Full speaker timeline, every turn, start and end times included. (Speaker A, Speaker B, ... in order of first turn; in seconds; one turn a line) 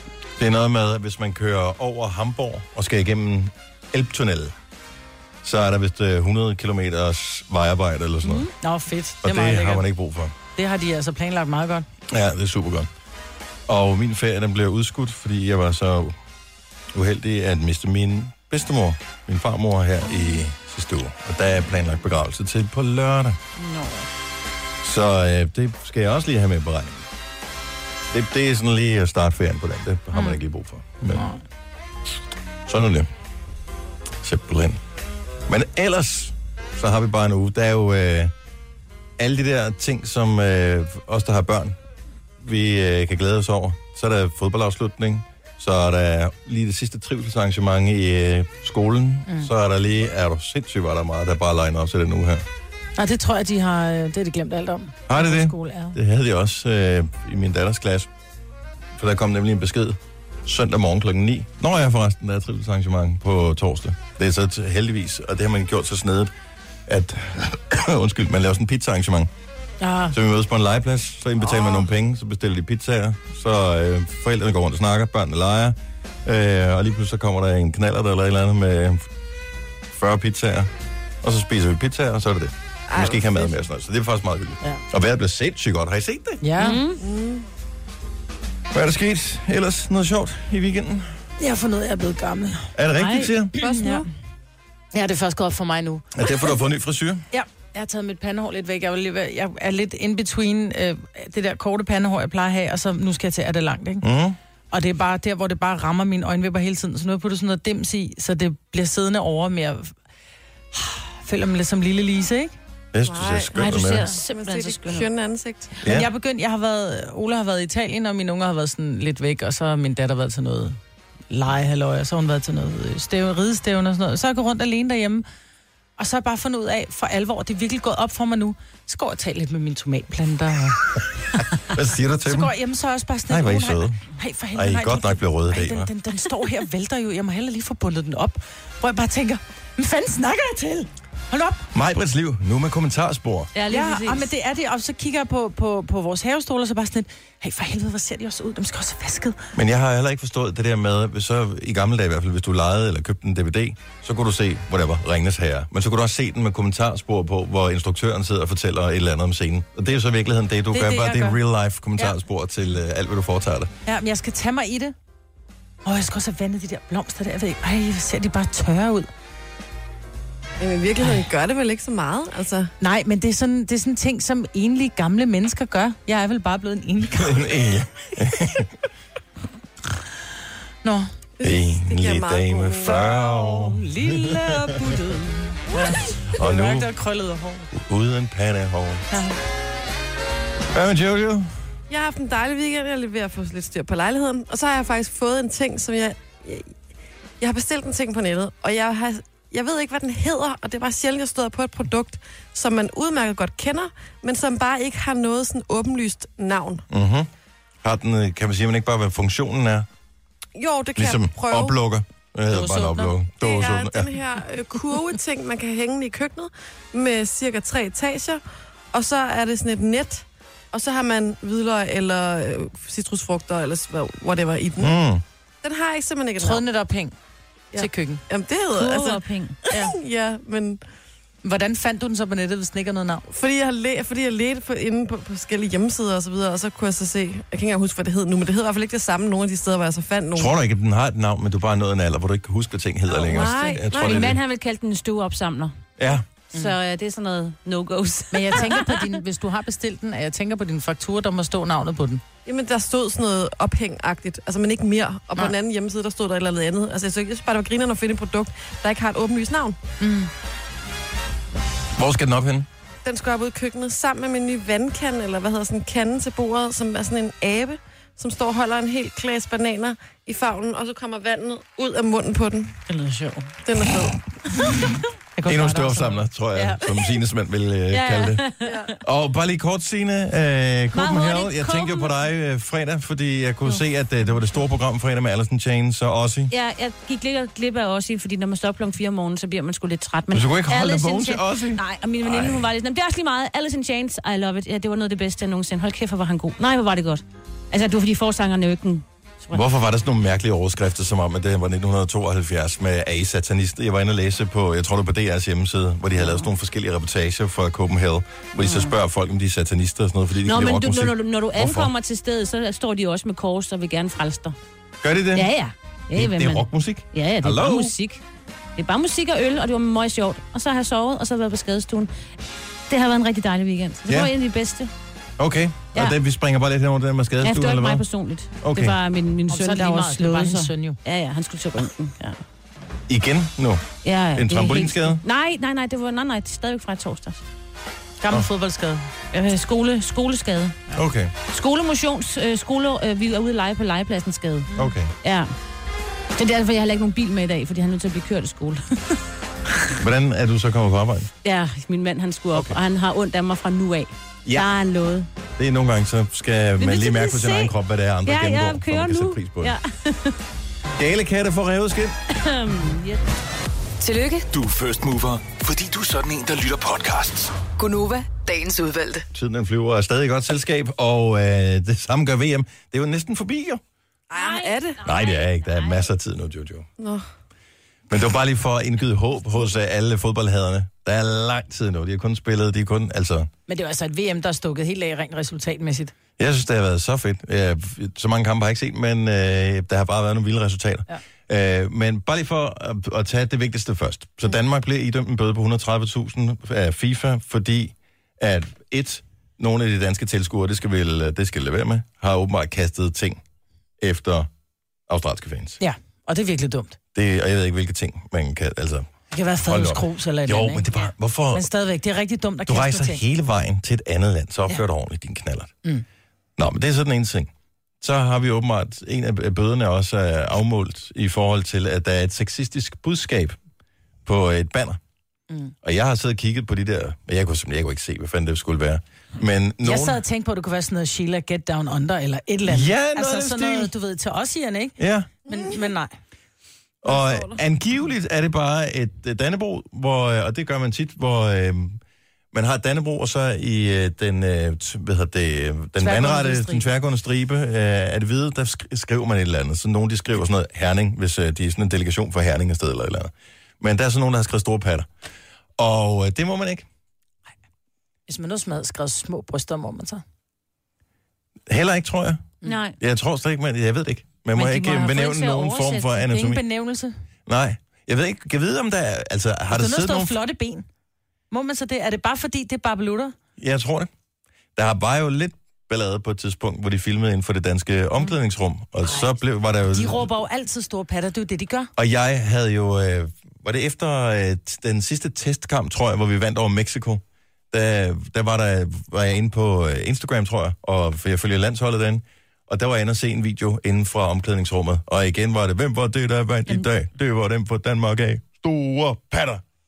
Speaker A: 0.4-4.5
Speaker A: 5.4-8.5
Speaker B: 8.2-8.5
Speaker C: 8.6-9.8
Speaker A: 9.2-10.3
Speaker C: 10.6-11.9
Speaker A: 12.1-12.9
Speaker A: 13.7-16.2
Speaker A: 16.9-23.4
Speaker B: 23.6-24.1
Speaker A: 24.8-27.0
Speaker A: 28.1-31.3
Speaker C: 31.1-31.4
Speaker A: 32.7-33.1
Speaker A: 34.2-34.8
Speaker A: 35.5-38.3
Speaker A: 39.2-41.8
Speaker A: 42.4-52.5
Speaker C: 53.0-56.0
Speaker A: 55.1-58.1
Speaker A: 59.0-66.3
Speaker A: 66.9-69.3
Speaker C: 69.8-70.2
Speaker A: 70.1-79.1
Speaker D: 71.4-71.8
Speaker A: 79.9-80.7
Speaker A: 81.2-86.4
Speaker D: 82.9-83.6
Speaker C: 86.4-86.8
Speaker B: 86.6-87.0
Speaker D: 87.0-87.5
Speaker A: 88.7-91.2
Speaker C: 91.4-92.7
Speaker A: 92.8-93.6
Speaker B: 93.0-93.3
Speaker C: 93.6-94.1
Speaker D: 93.6-94.1
Speaker C: 94.9-96.1
Speaker A: 96.2-97.2
Speaker C: 97.3-104.0
Speaker A: 104.0-104.4
Speaker C: 104.7-109.9
Speaker C: 110.7-112.6
Speaker A: 112.9-114.1
Speaker D: 113.0-115.7
Speaker B: 113.6-115.1
Speaker A: 115.8-116.1
Speaker C: 115.8-120.8
Speaker C: 121.3-125.2
Speaker C: 126.0-130.8
Speaker A: 131.7-132.5
Speaker C: 132.3-141.7
Speaker A: 133.3-134.0
Speaker A: 134.6-135.9
Speaker A: 141.7-143.5
Speaker B: 143.5-144.3
Speaker C: 143.7-149.4
Speaker A: 149.6-163.7
Speaker C: 160.7-161.4
Speaker C: 163.9-164.9
Speaker C: 165.8-169.1
Speaker D: 170.6-172.7
Speaker C: 172.8-177.4
Speaker A: 177.1-178.7
Speaker C: 180.8-181.1
Speaker D: 181.4-183.1
Speaker A: 181.4-184.5
Speaker C: 182.9-187.7
Speaker A: 186.3-186.9
Speaker A: 187.7-189.1
Speaker C: 189.1-189.4
Speaker A: 190.7-191.5
Speaker D: 191.9-196.7
Speaker D: 197.4-206.8
Speaker A: 206.9-207.3
Speaker A: 207.8-209.9
Speaker D: 210.6-211.8
Speaker A: 211.0-214.1
Speaker C: 212.5-213.2
Speaker D: 213.4-218.4
Speaker D: 218.9-225.0
Speaker A: 224.8-225.2
Speaker D: 225.6-226.7
Speaker C: 226.4-227.2
Speaker D: 227.7-230.8
Speaker C: 227.8-228.2
Speaker B: 228.7-229.6
Speaker C: 229.7-229.9
Speaker C: 231.4-233.3
Speaker D: 233.3-240.5
Speaker A: 240.3-244.4
Speaker B: 243.2-245.8
Speaker D: 243.3-244.2
Speaker A: 246.0-246.2
Speaker B: 246.5-249.1
Speaker C: 248.3-252.2
Speaker D: 252.5-259.8
Speaker C: 260.0-260.3
Speaker A: 262.0-262.7
Speaker D: 263.1-272.8
Speaker C: 272.9-273.5
Speaker D: 273.6-274.2
Speaker C: 275.4-277.1
Speaker A: 275.4-278.4
Speaker B: 277.9-278.9
Speaker D: 278.6-278.9
Speaker A: 279.0-286.5
Speaker B: 280.9-282.1
Speaker B: 286.5-299.6
Speaker A: 290.3-292.7
Speaker A: 299.5-311.9
Speaker B: 306.2-306.5
Speaker B: 308.6-308.9
Speaker B: 310.5-314.6
Speaker A: 315.0-315.5
Speaker B: 315.3-318.2
Speaker A: 316.1-317.9
Speaker B: 318.8-322.1
Speaker B: 322.9-324.9
Speaker A: 324.1-324.3
Speaker A: 325.4-328.0
Speaker B: 327.4-332.4
Speaker A: 328.6-329.0
Speaker C: 329.5-331.0
Speaker A: 333.1-335.2
Speaker B: 334.0-337.4
Speaker C: 338.2-339.1
Speaker B: 339.3-340.8
Speaker A: 341.0-341.3
Speaker B: 341.5-344.7
Speaker A: 344.8-345.1
Speaker B: 345.2-345.5
Speaker B: 346.4-349.2
Speaker A: 350.0-351.3
Speaker B: 351.4-355.3
Speaker A: 355.6-359.8
Speaker B: 356.8-357.7
Speaker B: 358.3-360.4
Speaker A: 361.0-362.2
Speaker B: 362.3-363.3
Speaker E: 364.0-364.5
Speaker F: 364.5-367.6
Speaker E: 367.8-369.3
Speaker A: 369.3-373.8
Speaker D: 374.3-375.0
Speaker B: 374.3-376.1
Speaker A: 375.0-376.9
Speaker D: 377.0-377.2
Speaker A: 378.1-383.5
Speaker C: 383.7-386.1
Speaker A: 386.4-403.4
Speaker A: 404.0-404.5
Speaker A: 405.1-405.8
Speaker C: 405.8-407.0
Speaker A: 407.1-409.1
Speaker C: 409.3-410.9
Speaker A: 409.7-411.6
Speaker C: 411.5-413.2
Speaker A: 412.7-415.7
Speaker A: 416.6-423.6
Speaker A: 424.2-425.0
Speaker A: 425.8-430.2
Speaker C: 429.8-436.1
Speaker A: 432.7-433.9
Speaker A: 435.0-435.3
Speaker A: 437.0-442.0
Speaker D: 437.1-437.6
Speaker A: 442.5-455.1
Speaker C: 446.0-446.9
Speaker A: 455.8-456.9
Speaker C: 458.3-460.2
Speaker A: 461.7-462.5
Speaker B: 462.6-463.0
Speaker A: 463.0-466.6
Speaker B: 464.6-466.3
Speaker C: 466.3-467.1
Speaker A: 467.5-470.4
Speaker C: 469.7-470.9
Speaker C: 471.5-473.3
Speaker A: 473.6-474.1
Speaker A: 474.8-480.2
Speaker C: 479.8-481.9
Speaker A: 482.0-499.6